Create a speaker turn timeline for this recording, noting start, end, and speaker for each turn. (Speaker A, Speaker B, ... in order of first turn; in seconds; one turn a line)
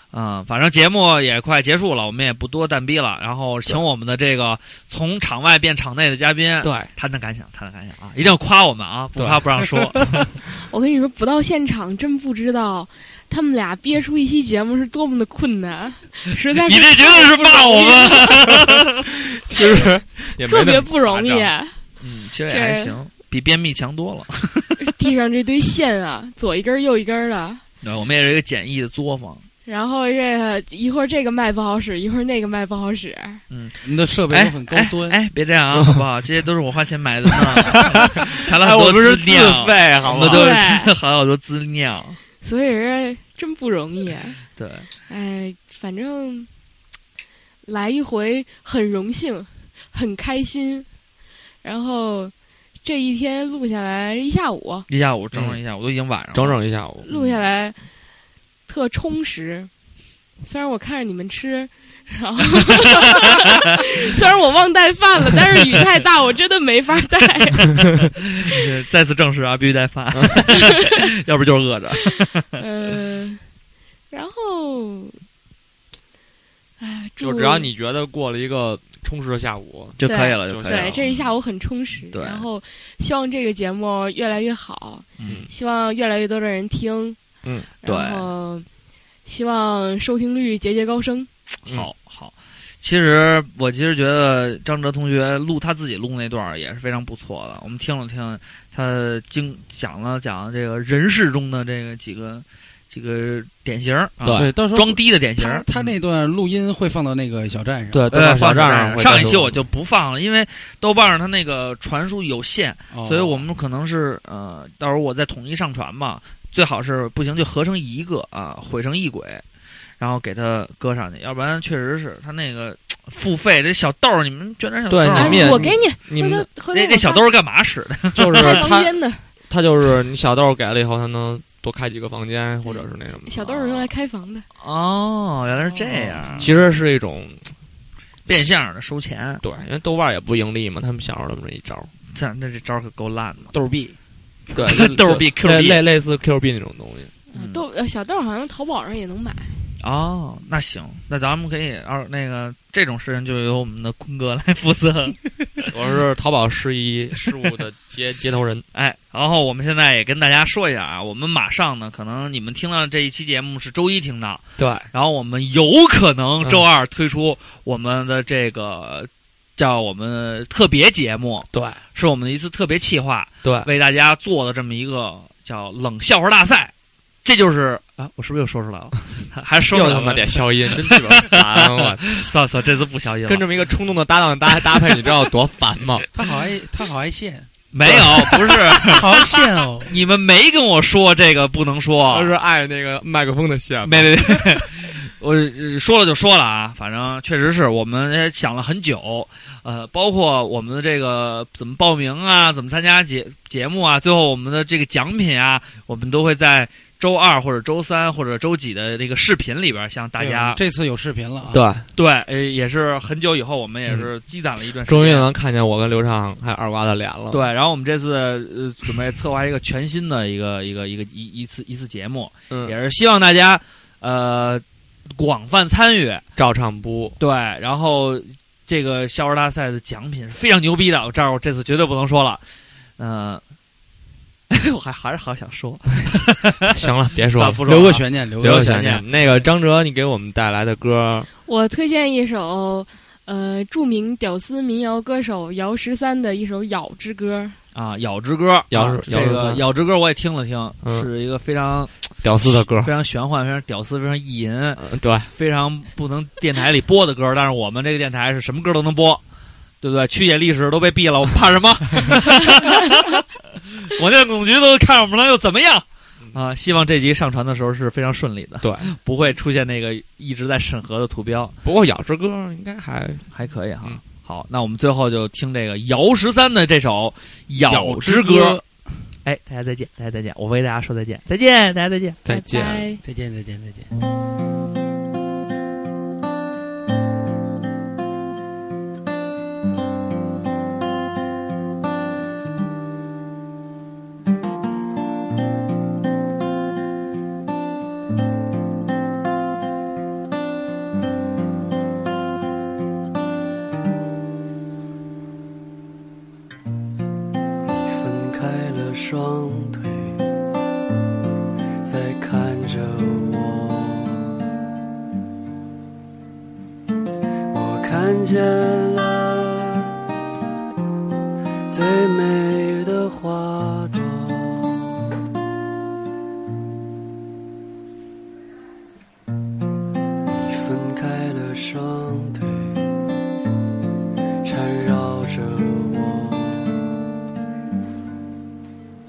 Speaker A: 0.1-10.0
Speaker B: 6.6-6.9
Speaker B: 9.2-10.3
Speaker C: 10.6-18.7
Speaker A: 16.6-18.8
Speaker B: 19.4-21.5
Speaker C: 20.4-21.8
Speaker A: 22.0-24.8
Speaker C: 22.5-23.0
Speaker C: 24.8-27.6
Speaker A: 27.8-29.4
Speaker C: 29.6-33.4
Speaker A: 33.5-42.2
Speaker D: 33.8-35.2
Speaker B: 38.5-40.5
Speaker C: 40.3-40.9
Speaker C: 42.4-44.4
Speaker A: 44.6-44.9
Speaker C: 45.1-46.5
Speaker C: 47.6-50.9
Speaker C: 51.6-54.9
Speaker A: 54.9-56.6
Speaker B: 55.3-55.6
Speaker B: 56.3-57.4
Speaker C: 57.0-57.8
Speaker C: 58.7-59.7
Speaker C: 60.4-67.8
Speaker A: 68.4-72.4
Speaker C: 72.6-73.5
Speaker C: 74.1-75.2
Speaker C: 76.8-77.7
Speaker B: 77.2-81.3
Speaker A: 80.0-81.1
Speaker C: 80.0-87.2
Speaker A: 82.1-82.5
Speaker A: 85.2-85.5
Speaker B: 85.2-85.5
Speaker B: 87.4-87.7
Speaker C: 87.8-88.7
Speaker A: 87.8-88.2
Speaker C: 89.2-91.3
Speaker A: 91.7-105.9
Speaker D: 104.2-108.1
Speaker B: 104.2-104.5
Speaker B: 107.9-109.6
Speaker A: 107.9-119.4
Speaker D: 112.9-113.4
Speaker A: 120.0-125.6
Speaker B: 124.9-126.5
Speaker C: 125.1-127.3
Speaker A: 126.7-128.6
Speaker B: 128.1-133.9
Speaker C: 128.4-129.2
Speaker C: 132.6-134.4
Speaker A: 134.6-136.5
Speaker B: 136.3-137.5
Speaker A: 138.3-139.4
Speaker B: 138.3-138.6
Speaker B: 139.4-141.9
Speaker A: 142.1-143.5
Speaker D: 143.5-144.0
Speaker A: 144.6-145.8
Speaker B: 144.6-147.1
Speaker C: 147.3-149.7
Speaker A: 147.3-147.6
Speaker A: 149.8-155.2
Speaker B: 155.7-158.6
Speaker A: 158.7-176.7
Speaker B: 164.6-164.9
Speaker B: 171.5-171.8
Speaker B: 173.4-173.7
Speaker A: 177.2-183.5
Speaker B: 179.7-182.2
Speaker B: 183.2-186.1
Speaker D: 186.1-189.9
Speaker A: 187.7-189.3
Speaker A: 189.8-192.3
Speaker B: 192.1-194.7
Speaker A: 193.8-210.6
Speaker D: 210.2-211.6
Speaker B: 211.5-211.9
Speaker A: 211.9-215.3
Speaker B: 214.8-217.4
Speaker A: 217.3-224.6
Speaker B: 222.5-222.8
Speaker A: 225.2-226.2
Speaker B: 226.3-227.2
Speaker A: 227.2-232.4
Speaker A: 233.0-233.4
Speaker A: 234.5-236.7
Speaker B: 236.7-237.6
Speaker A: 237.3-239.1
Speaker D: 237.6-238.9
Speaker B: 238.4-241.3
Speaker C: 241.4-247.6
Speaker A: 247.7-259.2
Speaker B: 248.7-249.7
Speaker B: 250.8-251.1
Speaker B: 252.2-252.9
Speaker B: 254.8-255.3
Speaker A: 259.8-263.2
Speaker A: 263.8-271.5
Speaker B: 268.6-268.9
Speaker B: 271.6-273.3
Speaker A: 273.3-278.6
Speaker D: 277.7-278.6
Speaker A: 279.2-282.2
Speaker B: 282.2-282.9
Speaker C: 282.3-283.0
Speaker D: 283.0-283.9
Speaker E: 307.8-310.1
Speaker E: 311.8-314.2
Speaker E: 317.5-319.9
Speaker E: 321.7-324.8
Speaker E: 330.5-332.8
Speaker E: 334.4-336.8